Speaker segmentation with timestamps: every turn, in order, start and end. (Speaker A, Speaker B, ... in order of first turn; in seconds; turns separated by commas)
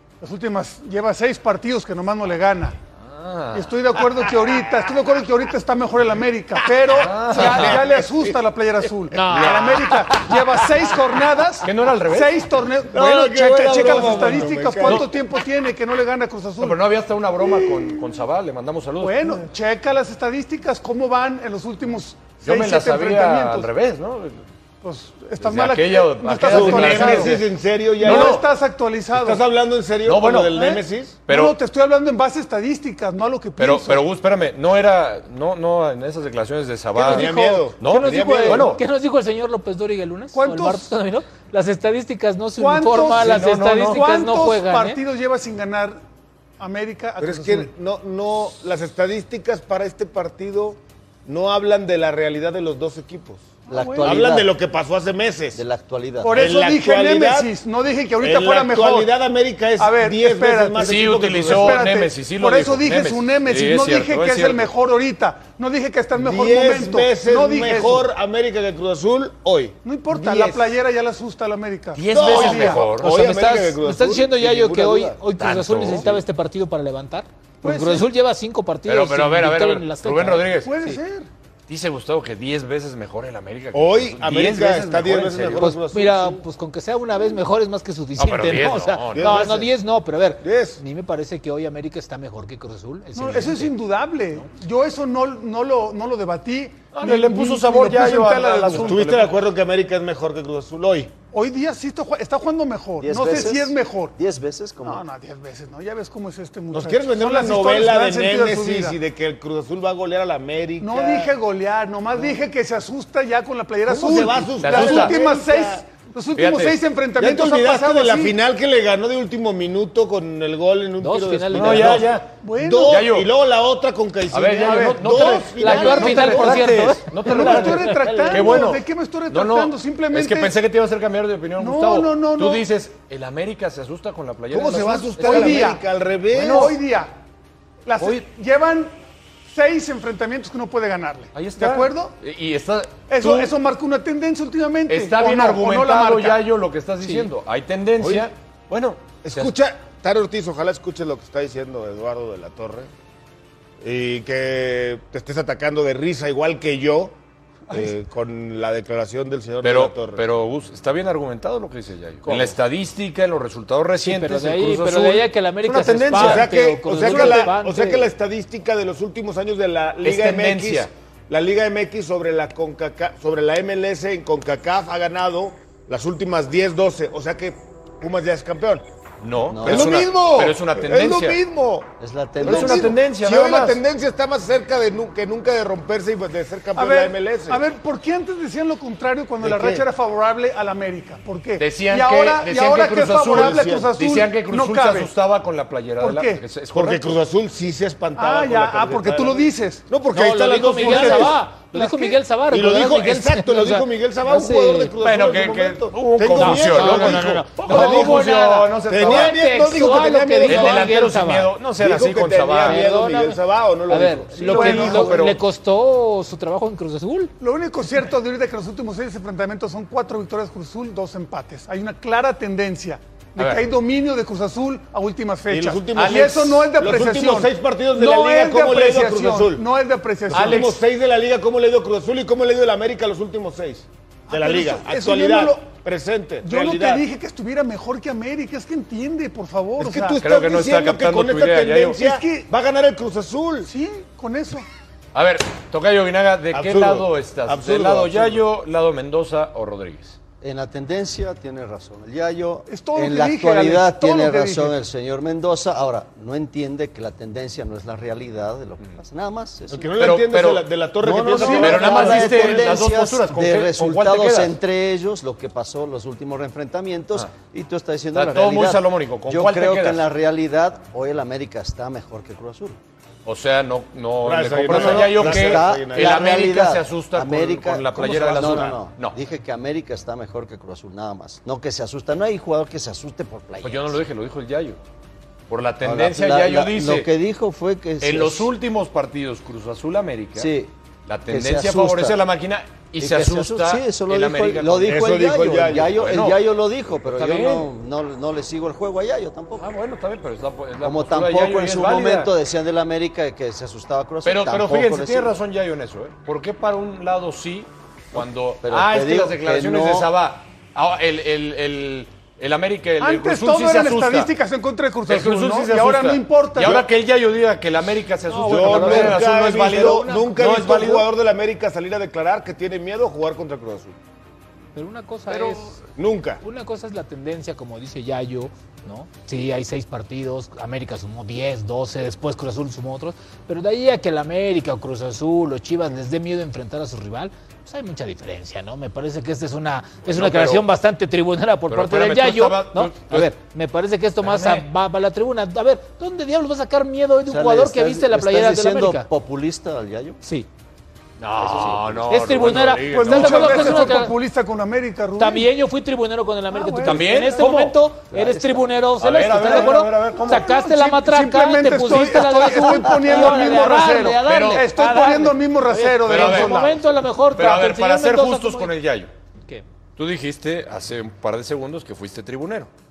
Speaker A: 0.2-2.8, Speaker B: 3.0-4.0, Speaker A: 3.5-16.9, Speaker B: 6.9-7.8, Speaker C: 7.3-8.3, Speaker D: 9.1-10.6, Speaker B: 9.3-9.9, Speaker B: 11.6-12.5, Speaker C: 12.9-15.2, Speaker B: 14.8-15.1, Speaker B: 16.6-19.4, Speaker A: 17.4-18.1, Speaker A: 19.0-23.7, Speaker B: 22.4-24.4, Speaker A: 24.8-27.4, Speaker B: 25.4-27.4, Speaker C: 26.4-28.5, Speaker A: 27.9-29.4, Speaker B: 28.0-28.4, Speaker C: 29.1-31.2, Speaker B: 30.0-30.7, Speaker A: 30.5-34.0, Speaker B: 31.3-31.6, Speaker B: 33.6-38.8, Speaker C: 36.9-38.8, Speaker D: 37.1-45.0, Speaker A: 40.3-40.9, Speaker A: 42.6-46.0, Speaker B: 43.2-44.0, Speaker A: 46.6-47.7, Speaker C: 47.2-53.5, Speaker A: 53.6-54.2, Speaker E: 53.7-54.5, Speaker C: 54.0-55.6, Speaker E: 55.5-56.5, Speaker A: 56.2-59.1, Speaker C: 56.3-57.5, Speaker C: 58.2-61.9, Speaker A: 59.8-68.1, Speaker B: 60.8-64.7, Speaker C: 66.2-70.6, Speaker A: 69.8-72.8, Speaker B: 71.9-73.3, Speaker C: 72.1-75.2, Speaker D: 72.3-81.0, Speaker B: 75.4-76.2, Speaker A: 77.6-78.1, Speaker B: 78.8-80.7, Speaker A: 80.5-81.3, Speaker B: 81.7-85.8, Speaker C: 83.7-86.4, Speaker D: 85.5-93.7, Speaker B: 88.2-89.5, Speaker C: 89.1-89.8, Speaker C: 90.4-90.8, Speaker A: 93.1-99.0, Speaker B: 96.9-99.3, Speaker C: 98.7-101.1, Speaker A: 101.3-104.1, Speaker E: 103.0-105.0, Speaker A: 104.8-109.0, Speaker C: 106.7-111.3, Speaker A: 110.8-118.3, Speaker C: 113.9-115.8, Speaker B: 114.6-115.1, Speaker B: 116.3-116.8, Speaker C: 117.2-126.7, Speaker D: 121.0-122.1, Speaker B: 121.5-122.3, Speaker A: 122.4-123.1, Speaker B: 122.9-123.3, Speaker B: 124.3-135.8, Speaker A: 124.6-130.5, Speaker D: 125.6-128.4, Speaker A: 131.6-132.7, Speaker C: 134.5-136.8, Speaker A: 135.2-137.1, Speaker B: 136.3-136.8, Speaker A: 137.8-138.9, Speaker B: 138.0-138.2, Speaker A: 139.5-142.1, Speaker B: 141.3-143.5, Speaker A: 143.1-146.4, Speaker B: 144.9-149.5, Speaker D: 147.0-147.3, Speaker C: 148.0-148.2, Speaker C: 149.2-152.9, Speaker C: 153.8-157.1, Speaker C: 157.7-160.2, Speaker B: 159.6-167.5, Speaker C: 162.2-162.5, Speaker D: 164.0-168.1, Speaker C: 166.1-178.8, Speaker B: 170.0-170.9, Speaker B: 179.2-181.4, Speaker E: 179.5-180.0, Speaker C: 179.6-187.6, Speaker E: 182.0-182.9, Speaker B: 182.4-183.8, Speaker A: 186.8-195.1, Speaker C: 189.4-189.8, Speaker B: 191.6-197.2, Speaker C: 193.2-193.9, Speaker A: 196.0-196.4, Speaker C: 196.7-201.4, Speaker A: 198.2-199.8, Speaker D: 200.1-204.9, Speaker A: 200.7-202.2, Speaker C: 202.5-211.0, Speaker B: 205.0-209.4, Speaker D: 206.3-211.5, Speaker B: 210.4-212.8, Speaker C: 211.8-215.3, Speaker D: 212.6-217.3, Speaker A: 214.4-215.2, Speaker B: 214.5-215.4, Speaker A: 217.4-230.8, Speaker B: 223.4-223.6, Speaker C: 225.5-229.7, Speaker B: 225.9-226.5, Speaker C: 230.3-237.0, Speaker B: 230.3-230.7, Speaker A: 234.3-235.7, Speaker A: 236.4-240.2, Speaker C: 239.8-243.7, Speaker B: 240.2-242.0, Speaker A: 241.9-242.5, Speaker A: 243.6-244.7, Speaker B: 245.1-250.2, Speaker C: 246.5-248.4, Speaker E: 250.4-259.9, Speaker A: 252.7-254.7, Speaker C: 259.7-262.8, Speaker B: 260.0-260.7, Speaker E: 261.0-272.8, Speaker A: 261.3-261.8, Speaker B: 261.3-264.6, Speaker B: 268.1-270.1, Speaker B: 273.2-279.2, Speaker C: 274.2-276.4, Speaker E: 274.6-284.0, Speaker C: 278.4-278.6, Speaker B: 283.6-284.8, Speaker B: 285.5-287.1, Speaker E: 285.8-288.5, Speaker B: 288.0-290.5, Speaker E: 290.3-290.7, Speaker B: 291.1-295.1, Speaker E: 291.3-292.2, Speaker E: 293.0-299.7, Speaker C: 294.8-296.0, Speaker B: 295.7-296.4, Speaker B: 297.0-297.7, Speaker B: 299.6-302.3, Speaker E: 300.8-305.3, Speaker B: 304.2-314.3, Speaker E: 308.1-310.1, Speaker A: 313.0-316.8, Speaker B: 315.1-321.1, Speaker C: 316.6-316.8, Speaker D: 318.3-320.3, Speaker C: 318.4-323.9, Speaker D: 324.7-325.8, Speaker B: 325.3-325.7, Speaker C: 325.9-326.4, Speaker D: 326.4-349.1, Speaker B: 340.0-340.6, Speaker B: 341.7-343.3, Speaker B: 344.2-344.6, Speaker E: 347.2-350.2, Speaker B: 351.2-354.0, Speaker E: 351.4-352.4, Speaker D: 352.1-354.1, Speaker A: 352.9-355.5, Speaker D: 355.2-368.7, Speaker A: 356.5-357.4, Speaker B: 356.8-357.8, Speaker E: 358.1-358.6, Speaker B: 359.0-360.5, Speaker A: 359.4-366.8, Speaker B: 364.2-364.6, Speaker B: 366.1-366.8, Speaker B: 367.3-369.1, Speaker B: 370.0-372.7